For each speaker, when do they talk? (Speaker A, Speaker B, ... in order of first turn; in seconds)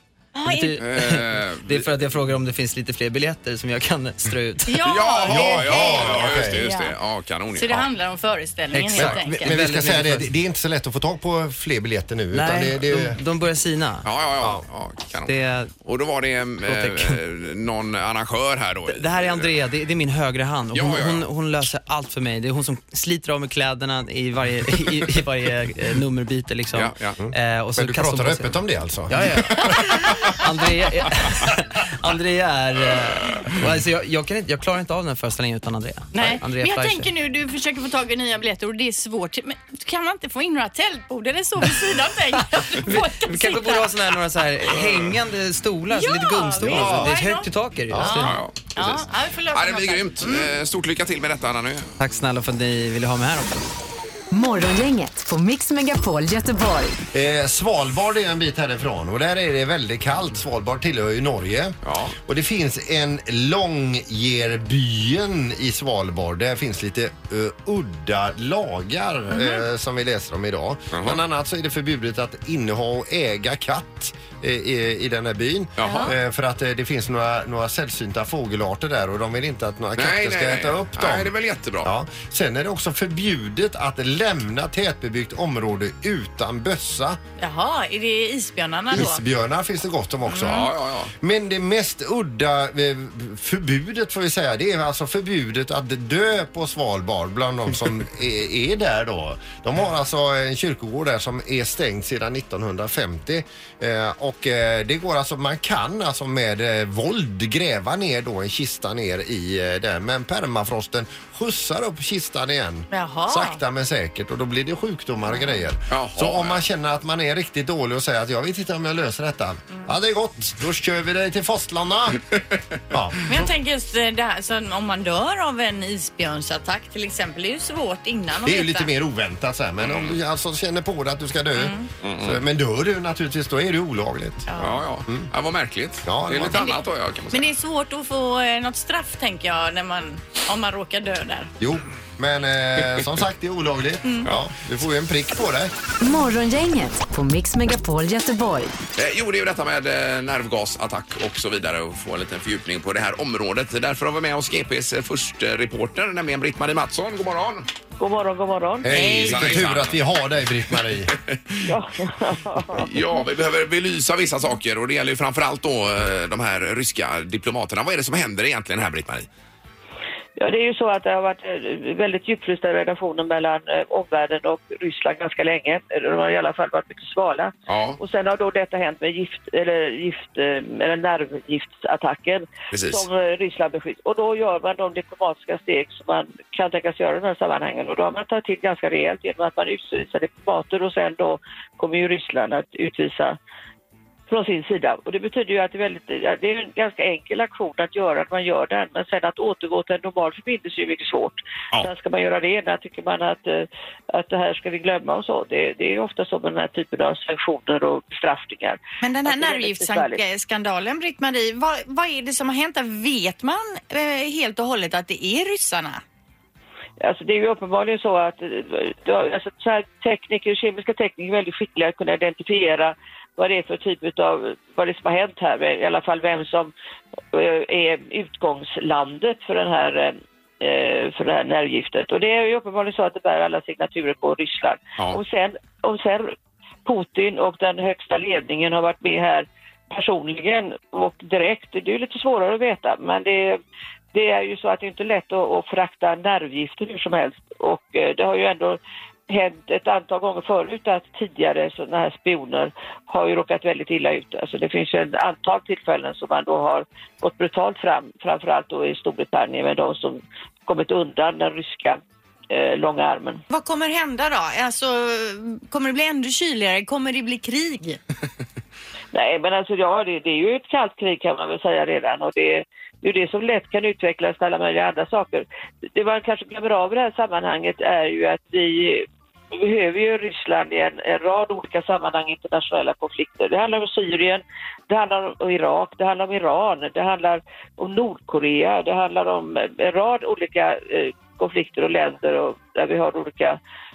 Speaker A: 0.3-0.8, 4.7-6.9, 7.5-9.5, 36.1-44.1, 45.9-50.5, 69.3-69.6, 75.8-76.1, 87.4-89.2, 90.3-90.6, 112.9-113.6, 115.3-115.6, 123.3-128.9, 131.6-131.9, 134.5-134.8, 136.5-136.8, 137.3-141.5, 159.0-159.5, 209.0-216.0, 263.5-268.0
Speaker B: 0.4-4.8, 8.7-10.3, 12.3-14.1, 15.2-15.7, 16.6-17.2, 18.9-37.1, 42.5-48.4, 52.0-53.7
Speaker C: 0.8-1.9, 4.8-7.9, 14.0-19.5, 20.7-21.2, 26.7-27.2, 48.2-51.9, 61.8-62.1, 70.9-71.2, 75.8-76.1, 80.0-81.9, 90.4-91.1, 115.9-116.6, 129.8-130.2, 132.0-132.4, 134.6-137.5, 148.9-157.7, 158.8-160.0, 160.7-161.6, 162.7-169.3, 177.7-178.0, 182.7-183.1
Speaker D: 5.3-6.7, 8.9-13.2, 27.2-29.8, 46.6-47.1, 47.9-48.3, 57.1-87.2, 88.9-122.2, 122.9-123.5, 128.4-134.5, 136.0-136.7, 141.6-145.7, 158.8-161.1
Speaker E: 54.3-57.0, 146.0-148.7
Speaker F: 158.0-158.9, 161.7-162.9, 170.4-193.4, 194.3-210.2, 217.0-226.7, 227.3-243.6, 244.1-263.4, 269.1-293.6